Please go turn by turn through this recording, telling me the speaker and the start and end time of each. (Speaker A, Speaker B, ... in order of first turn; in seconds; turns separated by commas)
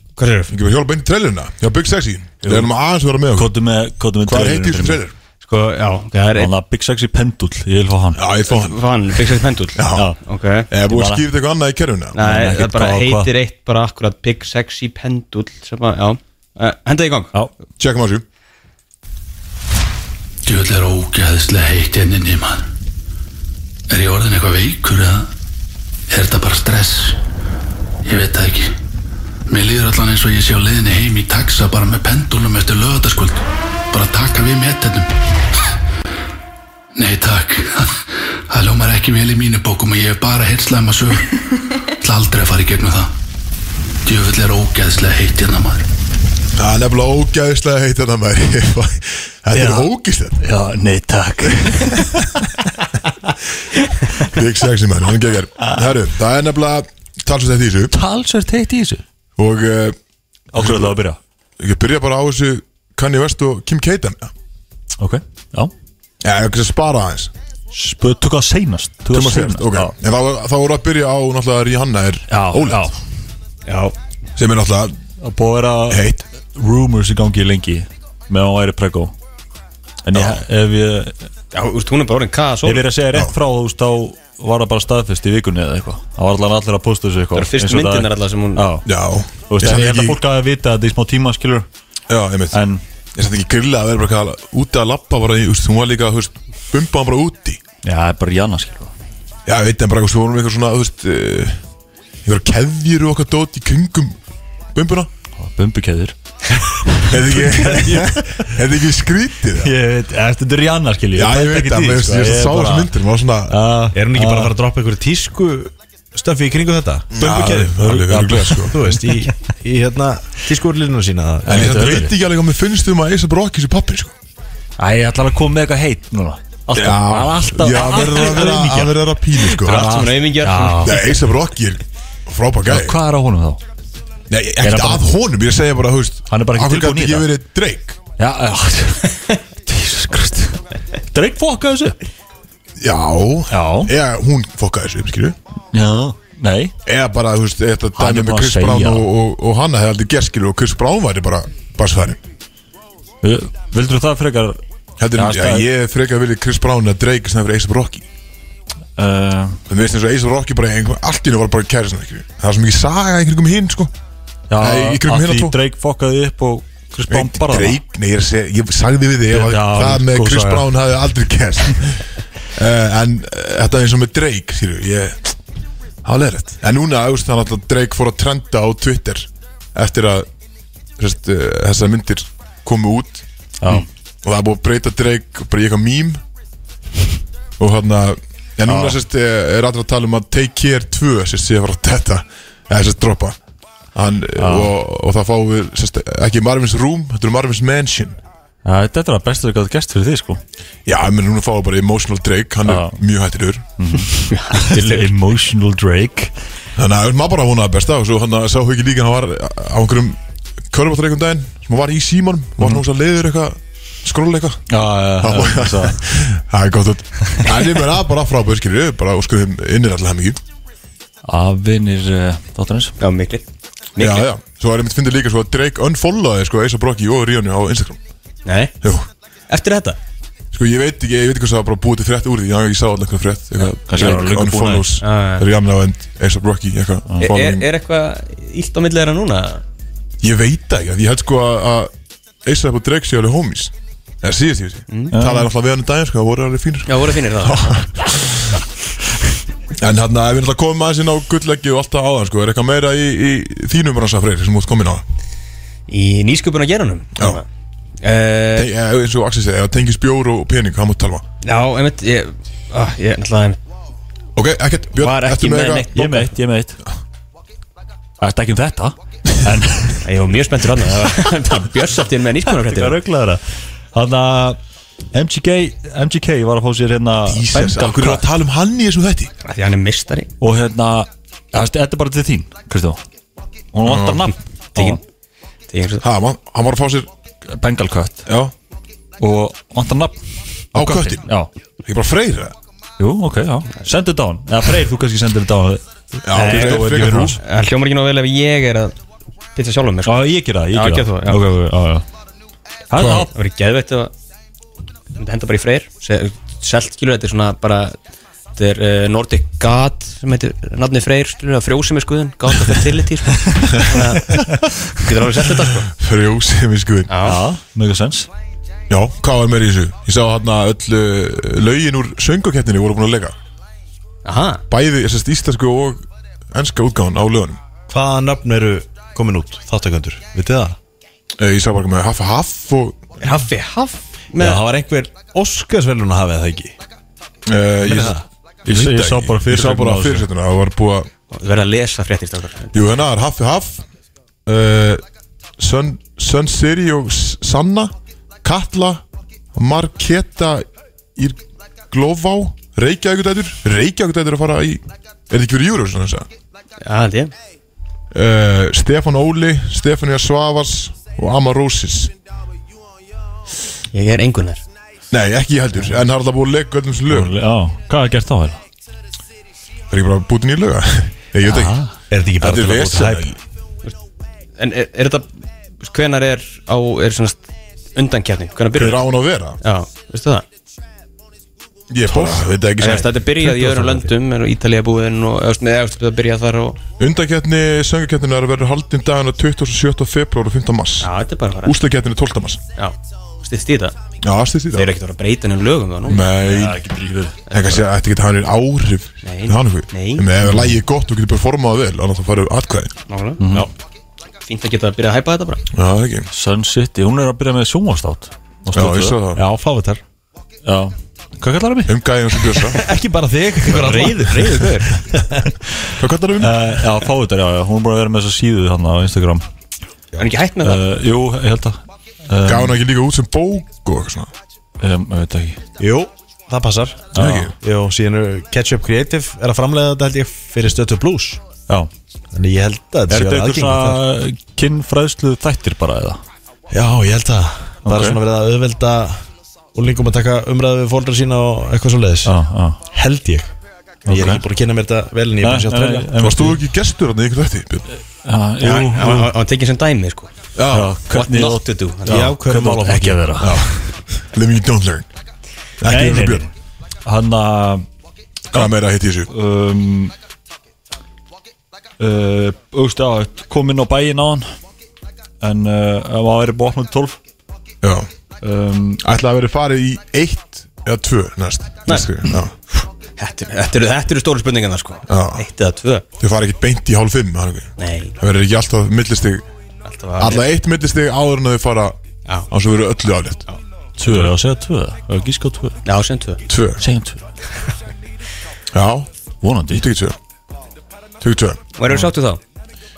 Speaker A: 0.2-0.5, Speaker B: 0.5-3.5, Speaker C: 3.3-5.0, Speaker B: 4.2-5.1, Speaker A: 5.4-6.5, Speaker C: 6.3-8.2, Speaker B: 8.2-8.8, Speaker A: 8.5-10.7, Speaker B: 9.8-10.1, Speaker C: 9.9-10.2, Speaker B: 10.7-12.2, Speaker C: 10.9-11.3, Speaker A: 12.1-17.3, Speaker C: 12.2-13.3, Speaker B: 17.8-18.2, Speaker D: 20.4-22.7, Speaker D: 23.9-25.3, Speaker D: 26.1-27.2, Speaker D: 28.0-28.8, Speaker D: 29.5-35.2, Speaker D: 37.0-43.1, Speaker D: 44.0-45.9, Speaker B: 46.6-50.4, Speaker C: 49.5-52.5, Speaker B: 54.2-58.0, Speaker C: 57.9-59.0, Speaker B: 59.4-60.0, Speaker C: 60.5-61.2, Speaker B: 60.6-61.0, Speaker B: 61.6-64.3, Speaker C: 65.0-65.7, Speaker B: 66.2-67.3, Speaker C: 67.7-69.9, Speaker B: 69.1-72.9, Speaker C: 72.3-73.0, Speaker A: 73.7-74.0, Speaker B: 74.4-75.0, Speaker C: 75.2-79.1, Speaker B: 75.9-76.2, Speaker C: 80.0-81.2, Speaker B: 80.1-80.4, Speaker A: 81.5-82.8, Speaker C: 82.7-88.9, Speaker A: 87.3-88.7, Speaker B: 88.9-90.2, Speaker C: 89.5-91.7, Speaker B: 92.1-92.6, Speaker C: 92.5-92.8, Speaker B: 93.2-97.6, Speaker C: 97.8-98.9, Speaker B: 99.5-101.6, Speaker B: 102.2-104.2, Speaker B: 104.7-105.1, Speaker C: 105.4-108.4, Speaker B: 107.0-109.7, Speaker C: 109.6-113.0, Speaker B: 111.1-113.6, Speaker C: 113.5-114.5, Speaker E: 113.9-117.9, Speaker B: 117.1-118.8, Speaker C: 117.2-119.3, Speaker E: 118.7-122.1, Speaker C: 121.5-122.2, Speaker B: 121.5-124.1, Speaker C: 124.8-131.2, Speaker B: 126.7-130.1, Speaker A: 129.6-131.1, Speaker B: 130.8-133.0, Speaker C: 132.7-133.6, Speaker B: 134.3-138.0, Speaker C: 134.6-135.1, Speaker C: 136.3-137.3, Speaker C: 138.2-142.0, Speaker B: 142.8-145.4, Speaker C: 143.5-143.9, Speaker C: 145.7-146.7, Speaker B: 146.9-152.2, Speaker C: 148.0-149.1, Speaker C: 153.2-154.6, Speaker B: 155.0-158.1, Speaker C: 155.1-155.7, Speaker C: 159.0-159.6, Speaker B: 159.7-163.9, Speaker C: 164.5-167.8, Speaker B: 164.6-165.6, Speaker B: 167.1-175.3, Speaker C: 169.3-170.7, Speaker B: 176.1-180.3, Speaker B: 181.0-183.2, Speaker C: 183.6-183.9, Speaker B: 184.2-186.2, Speaker B: 187.6-193.4, Speaker C: 188.7-189.0, Speaker B: 193.9-198.2, Speaker C: 194.4-194.7, Speaker C: 198.6-200.4, Speaker B: 200.9-203.7, Speaker C: 202.7-203.0, Speaker C: 203.8-206.3, Speaker A: 204.2-205.1, Speaker B: 206.8-210.2, Speaker B: 210.7-214.6, Speaker C: 212.6-212.8, Speaker C: 214.7-216.0, Speaker B: 215.2-220.4, Speaker C: 221.2-222.9, Speaker A: 223.0-224.3, Speaker B: 224.0-228.0, Speaker A: 228.4-228.8, Speaker B: 228.8-229.1, Speaker A: 229.5-230.0, Speaker B: 230.5-237.7, Speaker C: 233.8-234.9, Speaker A: 234.0-234.3, Speaker A: 235.0-235.5, Speaker A: 237.2-239.6, Speaker B: 240.2-241.9, Speaker B: 242.4-248.6, Speaker A: 244.9-245.2, Speaker C: 245.1-245.5, Speaker A: 246.9-247.8, Speaker B: 249.8-255.0, Speaker A: 255.9-257.4, Speaker B: 257.2-257.4, Speaker A: 258.0-258.7, Speaker B: 258.6-261.2, Speaker A: 261.4-263.6, Speaker B: 264.4-266.0, Speaker A: 265.0-266.3, Speaker C: 265.9-266.8, Speaker C: 268.2-270.1, Speaker A: 270.0-273.0, Speaker C: 271.0-271.3, Speaker C: 272.5-274.6, Speaker C: 275.1-278.3, Speaker B: 277.3-279.3, Speaker A: 279.4-280.3, Speaker C: 280.4-283.0, Speaker C: 283.7-285.0, Speaker B: 283.9-284.3, Speaker A: 284.8-285.0, Speaker A: 285.7-286.0, Speaker B: 286.0-287.1, Speaker C: 287.5-288.3, Speaker B: 288.3-288.5, Speaker C: 289.2-290.2, Speaker C: 290.7-291.5, Speaker B: 290.8-291.3, Speaker B: 291.9-292.6, Speaker C: 293.0-297.4, Speaker B: 296.2-297.4, Speaker A: 296.3-298.9, Speaker A: 299.6-300.2, Speaker C: 300.1-302.1, Speaker A: 300.7-301.4, Speaker C: 302.9-303.3, Speaker B: 303.0-303.3, Speaker A: 303.2-304.1, Speaker A: 305.2-308.0, Speaker A: 308.6-315.9, Speaker C: 314.3-314.7, Speaker B: 315.9-317.1, Speaker A: 317.1-317.4, Speaker C: 317.2-318.3, Speaker B: 318.9-323.4, Speaker A: 324.2-324.6, Speaker B: 324.7-327.6, Speaker E: 327.9-330.8, Speaker B: 331.4-333.0, Speaker A: 333.2-334.6, Speaker E: 334.4-336.7, Speaker B: 337.5-341.1, Speaker E: 337.9-340.2, Speaker C: 338.7-340.2, Speaker A: 341.3-342.8, Speaker B: 342.7-343.8, Speaker B: 344.5-345.0, Speaker B: 345.6-349.0, Speaker B: 349.5-356.3, Speaker A: 356.8-357.3, Speaker B: 358.1-362.1, Speaker A: 363.9-364.6, Speaker B: 365.1-367.3, Speaker C: 367.1-368.6, Speaker B: 369.9-371.8, Speaker C: 371.4-371.9, Speaker E: 372.1-373.3, Speaker B: 372.4-373.4, Speaker A: 374.6-375.3, Speaker A: 375.8-379.0, Speaker B: 378.7-379.6, Speaker A: 379.6-380.4, Speaker B: 381.9-384.1, Speaker A: 382.1-386.8, Speaker B: 387.0-391.1, Speaker A: 391.0-391.8, Speaker B: 391.6-392.6, Speaker A: 392.8-394.0, Speaker B: 394.2-394.9, Speaker A: 394.7-396.3, Speaker B: 396.1-396.8, Speaker C: 396.4-397.4, Speaker A: 397.5-397.8, Speaker B: 397.5-402.9, Speaker A: 399.2-400.3, Speaker C: 400.4-400.8, Speaker A: 403.1-403.4, Speaker C: 403.4-403.7, Speaker A: 404.4-405.6, Speaker B: 405.7-406.3, Speaker C: 406.3-409.2, Speaker B: 408.7-409.4, Speaker E: 409.4-410.0, Speaker C: 410.6-412.6, Speaker B: 411.9-412.8, Speaker E: 412.7-415.5, Speaker A: 413.6-415.0, Speaker C: 415.8-419.4, Speaker B: 416.0-416.6, Speaker A: 420.2-420.8, Speaker C: 420.6-422.8, Speaker B: 422.5-424.3, Speaker C: 424.8-425.6, Speaker E: 425.8-431.4, Speaker C: 427.1-427.5, Speaker B: 427.2-427.5, Speaker E: 432.3-434.0, Speaker C: 433.1-436.2, Speaker E: 436.7-439.2, Speaker C: 437.9-438.2, Speaker E: 439.7-442.3, Speaker C: 442.2-442.8, Speaker E: 442.9-443.5, Speaker E: 444.1-446.1, Speaker C: 444.1-444.4, Speaker C: 445.4-446.6, Speaker B: 446.2-447.9, Speaker C: 448.2-449.3, Speaker A: 448.6-450.3, Speaker B: 450.6-451.0, Speaker C: 450.7-453.9, Speaker A: 451.1-452.3, Speaker E: 452.1-453.4, Speaker B: 453.4-455.1, Speaker B: 455.8-456.4, Speaker C: 455.9-456.5, Speaker C: 457.1-457.9, Speaker B: 458.5-459.3, Speaker C: 459.3-460.1, Speaker C: 462.0-464.5, Speaker C: 465.4-467.2, Speaker B: 467.8-468.1, Speaker C: 468.4-469.0, Speaker B: 469.0-472.5, Speaker A: 472.7-476.0, Speaker B: 475.1-475.5, Speaker B: 476.2-479.4, Speaker A: 477.8-478.1, Speaker A: 479.9-480.5, Speaker B: 480.2-482.0, Speaker B: 482.5-483.4, Speaker C: 484.0-485.8, Speaker B: 484.1-484.3, Speaker A: 485.9-486.4, Speaker B: 486.5-486.8, Speaker C: 486.8-487.2, Speaker B: 488.7-489.1, Speaker C: 489.4-489.9, Speaker B: 489.7-490.2, Speaker B: 491.2-491.6, Speaker A: 491.8-492.4